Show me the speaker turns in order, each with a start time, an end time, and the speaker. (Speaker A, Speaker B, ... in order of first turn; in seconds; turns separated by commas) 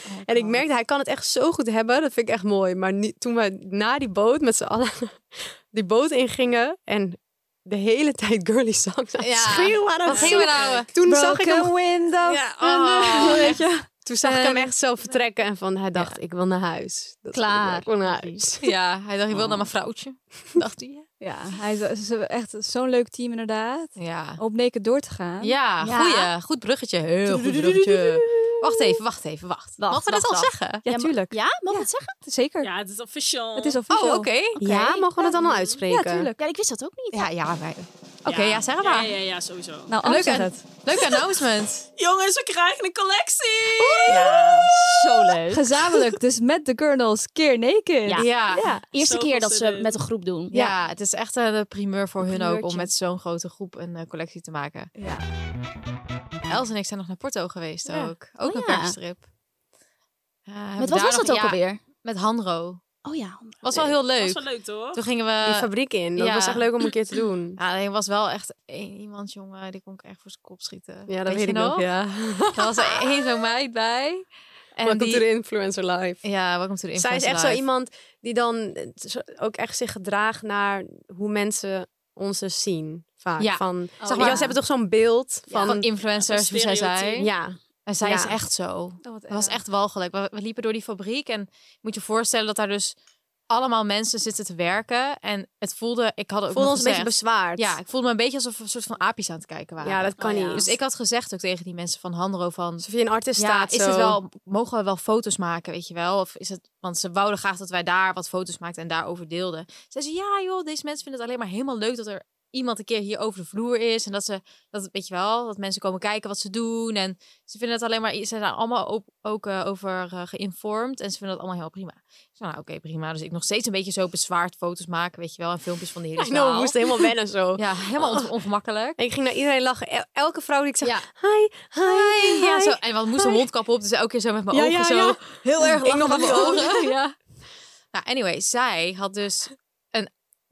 Speaker A: 0.2-18.7, Speaker B: 9.2-10.9, Speaker C: 10.1-10.8, Speaker D: 11.0-14.7, Speaker B: 12.6-13.7, Speaker E: 17.3-18.4, Speaker B: 18.6-21.1, Speaker D: 21.2-25.6, Speaker B: 24.0-24.4, Speaker B: 25.4-30.9, Speaker E: 25.8-26.3, Speaker E: 27.3-28.5, Speaker E: 29.8-32.1, Speaker D: 30.9-32.7, Speaker C: 32.6-33.8, Speaker D: 33.6-34.3, Speaker B: 33.9-34.6, Speaker A: 34.6-36.3, Speaker E: 34.6-35.4, Speaker C: 35.5-35.7, Speaker D: 35.9-36.4, Speaker E: 36.4-37.3, Speaker B: 37.1-39.2, Speaker C: 38.3-40.0, Speaker D: 39.9-40.6, Speaker B: 40.0-41.8, Speaker C: 42.0-45.4, Speaker D: 43.8-44.2, Speaker E: 44.1-45.7, Speaker D: 45.5-48.9, Speaker E: 48.1-48.3, Speaker B: 48.1-48.7, Speaker E: 48.9-50.7, Speaker C: 49.0-50.0, Speaker B: 50.5-54.9, Speaker D: 52.3-52.9, Speaker D: 55.0-55.3, Speaker B: 56.5-59.2, Speaker E: 58.4-59.0, Speaker B: 60.5-62.8, Speaker E: 60.8-61.8, Speaker E: 63.0-63.9, Speaker B: 63.6-66.7, Speaker C: 64.2-65.0, Speaker A: 65.4-67.6, Speaker B: 67.6-71.9, Speaker A: 71.1-72.7, Speaker B: 72.5-75.2, Speaker A: 74.8-76.2, Speaker B: 76.2-77.6, Speaker A: 77.0-85.8, Speaker B: 83.4-84.6, Speaker E: 84.0-84.5, Speaker E: 85.5-85.7, Speaker B: 85.7-87.3, Speaker C: 85.9-87.3, Speaker A: 87.2-88.4, Speaker B: 87.9-93.0, Speaker D: 89.0-89.6, Speaker B: 93.5-129.0, Speaker A: 96.5-97.8, Speaker A: 99.8-100.8, Speaker E: 100.2-100.7, Speaker A: 102.8-104.2, Speaker A: 126.2-128.3, Speaker A: 129.0-133.5, Speaker B: 130.8-131.1, Speaker B: 131.8-137.0, Speaker A: 134.5-137.1, Speaker B: 137.9-140.1